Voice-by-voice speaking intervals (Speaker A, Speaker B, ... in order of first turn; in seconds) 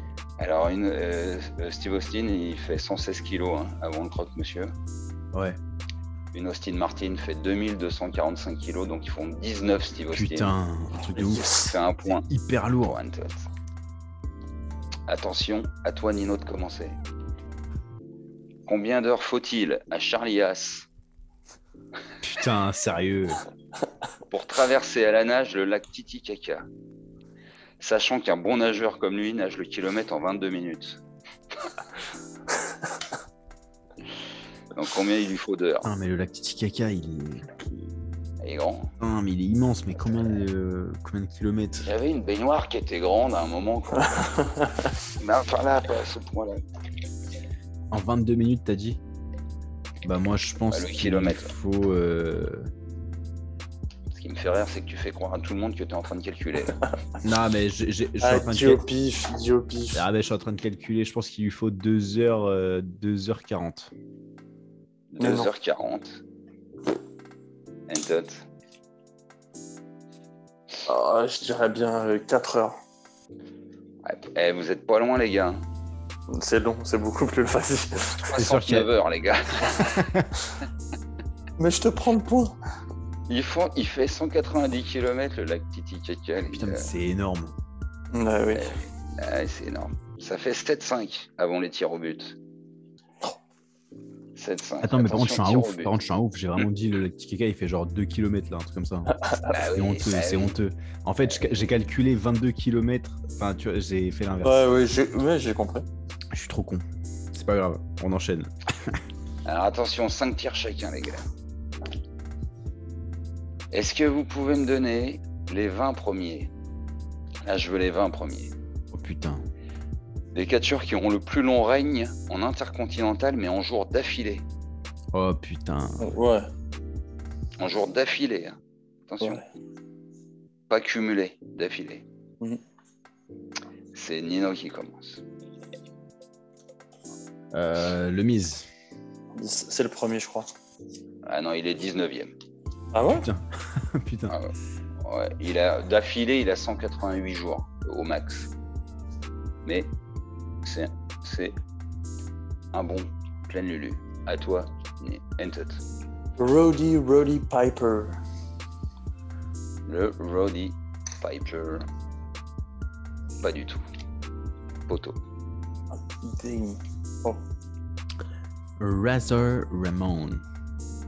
Speaker A: 0.4-4.7, 6.3-10.5, 11.5-12.3, 12.8-13.5, 15.1-17.0, 18.7-20.9, 24.3-26.6, 27.8-31.0, 34.7-35.9, 38.4-38.9, 41.8-44.4, 45.1-46.6, 50.7-51.5, 54.1-56.8, 65.1-66.2, 67.9-68.5, 74.0-75.6, 78.1-80.0, 83.3-86.9, 88.5-92.4, 94.3-95.9, 99.5-100.6, 109.4-111.2, 113.7-116.5, 117.5-118.5, 120.3-124.4, 127.6-128.6, 129.1-129.4, 130.7-132.0, 133.9-135.2, 141.2-142.3, 145.0-148.5, 149.6-149.9, 150.6-151.6, 152.7-155.8, 159.8-161.9, 163.4-163.8, 164.9-165.2
Speaker B: 5.3-5.6, 10.1-11.4, 12.3-13.0, 22.2-23.4, 35.8-37.9, 39.0-41.9, 47.9-49.0, 50.0-52.7, 57.2-58.8, 59.9-63.9, 78.3-78.9, 79.8-80.3, 86.5-87.5, 94.8-99.1, 99.7-104.7, 106.3-109.0, 118.9-119.5, 125.1-126.2, 137.5-138.7, 143.2-144.4, 168.8-170.4
Speaker C: 11.1-11.8, 58.2-60.0, 65.2-65.5, 70.8-72.8, 76.3-78.2, 81.6-82.5, 88.1-88.7, 99.2-99.5, 104.4-105.8, 126.0-126.5, 139.3-140.5, 142.9-143.3, 156.4-158.2, 166.1-167.4